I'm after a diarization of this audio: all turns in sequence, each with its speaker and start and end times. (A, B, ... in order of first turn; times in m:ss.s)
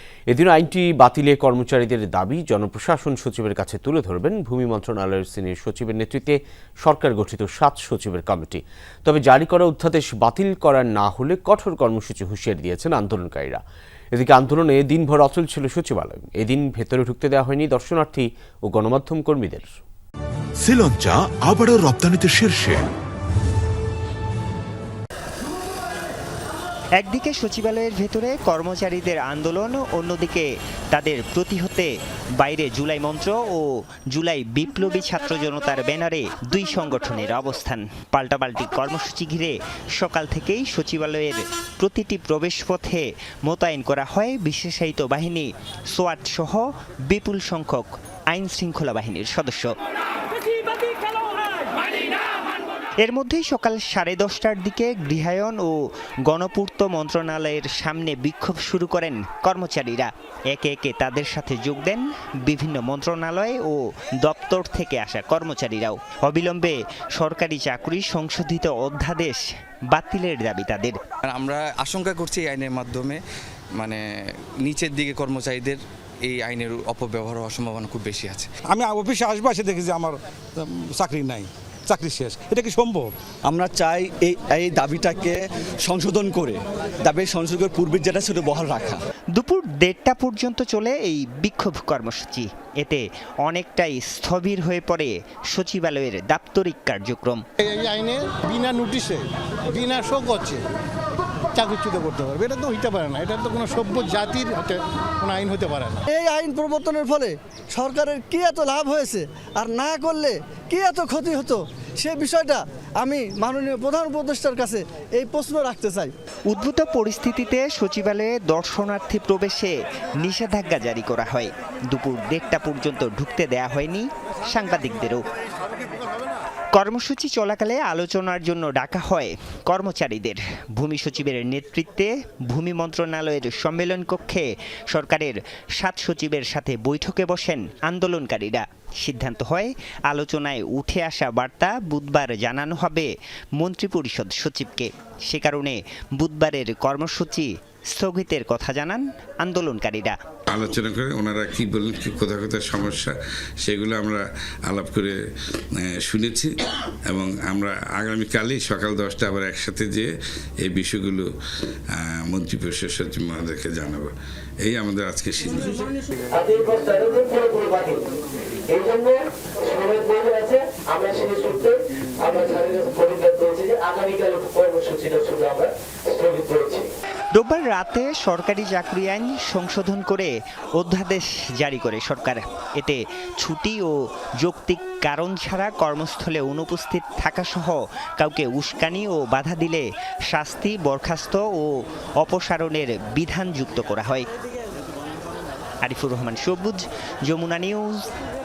0:00.3-0:13.6 A
0:14.1-0:19.7 A
0:20.6-0:22.9 B
0:27.0-0:49.7 C
0:53.0-1:11.0 C
1:11.2-1:13.2 D
1:13.8-1:14.0 D
1:14.6-1:18.5 D
1:18.7-1:23.1 E
1:23.5-1:29.0 F
1:29.3-1:37.4 C
1:37.6-1:40.6 G
1:41.6-1:46.0 G
1:46.1-1:56.1 H
1:56.5-2:05.2 C
2:06.7-2:30.2 C
2:30.5-2:33.1 I
2:33.7-2:35.2 I
2:36.0-2:36.5 I
2:37.1-2:40.0 I
2:40.7-2:41.2 I
2:42.0-2:44.1 I
2:44.7-2:45.9 I
2:46.4-2:47.9 J
2:48.7-2:49.1 J
2:49.7-2:51.7 J
2:52.2-2:56.8 J
2:57.3-3:14.3 C
3:15.8-3:18.1 C